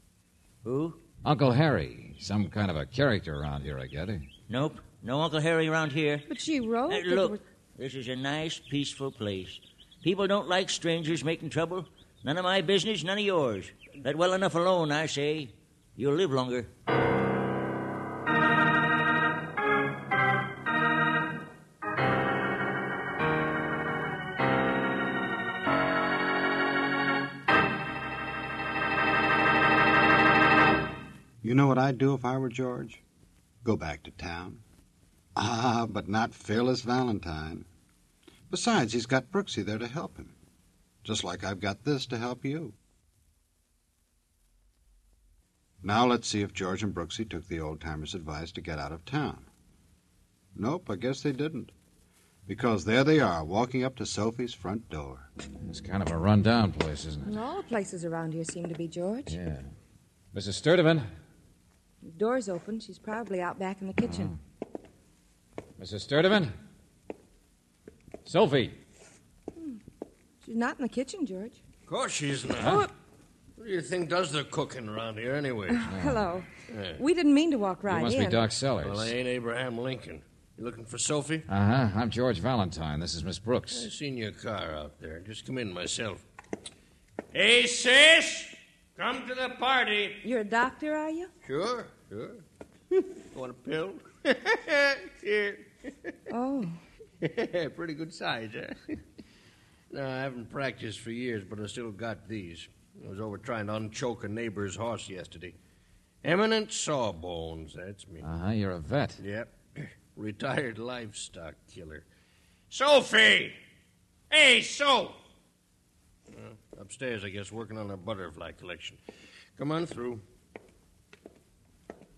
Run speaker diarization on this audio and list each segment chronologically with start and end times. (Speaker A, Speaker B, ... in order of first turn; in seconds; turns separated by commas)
Speaker A: 0.6-1.0, Speaker B: 1.2-4.2, Speaker A: 4.5-6.3, Speaker C: 6.3-7.4, Speaker A: 6.9-16.7, Speaker D: 31.4-33.0, Speaker D: 33.6-34.6, Speaker D: 35.3-37.6, Speaker D: 38.5-40.3, Speaker D: 41.0-42.7, Speaker D: 45.8-49.5, Speaker D: 50.5-51.7, Speaker D: 52.5-55.3, Speaker B: 55.6-57.4, Speaker C: 57.2-59.4, Speaker B: 59.3-59.6, Speaker B: 60.3-61.1, Speaker C: 62.0-64.3, Speaker B: 64.0-64.3, Speaker B: 65.8-66.5, Speaker B: 68.2-68.8, Speaker C: 70.4-71.6, Speaker E: 71.9-72.9, Speaker B: 72.6-72.8, Speaker C: 72.6-72.9, Speaker E: 73.6-75.9, Speaker C: 75.7-78.4, Speaker B: 75.9-76.3, Speaker E: 76.7-77.0, Speaker B: 77.9-79.1, Speaker E: 78.8-81.5, Speaker B: 81.5-83.9, Speaker E: 83.7-86.2, Speaker E: 87.3-90.2, Speaker C: 90.2-91.3, Speaker E: 91.4-92.4, Speaker E: 93.3-96.1, Speaker C: 96.3-96.8, Speaker E: 97.2-99.0, Speaker E: 99.9-105.5, Speaker E: 106.2-108.2, Speaker B: 108.2-109.2, Speaker E: 109.2-112.0, Speaker E: 112.7-113.5, Speaker E: 114.3-115.2, Speaker E: 116.3-119.0, Speaker E: 119.6-120.2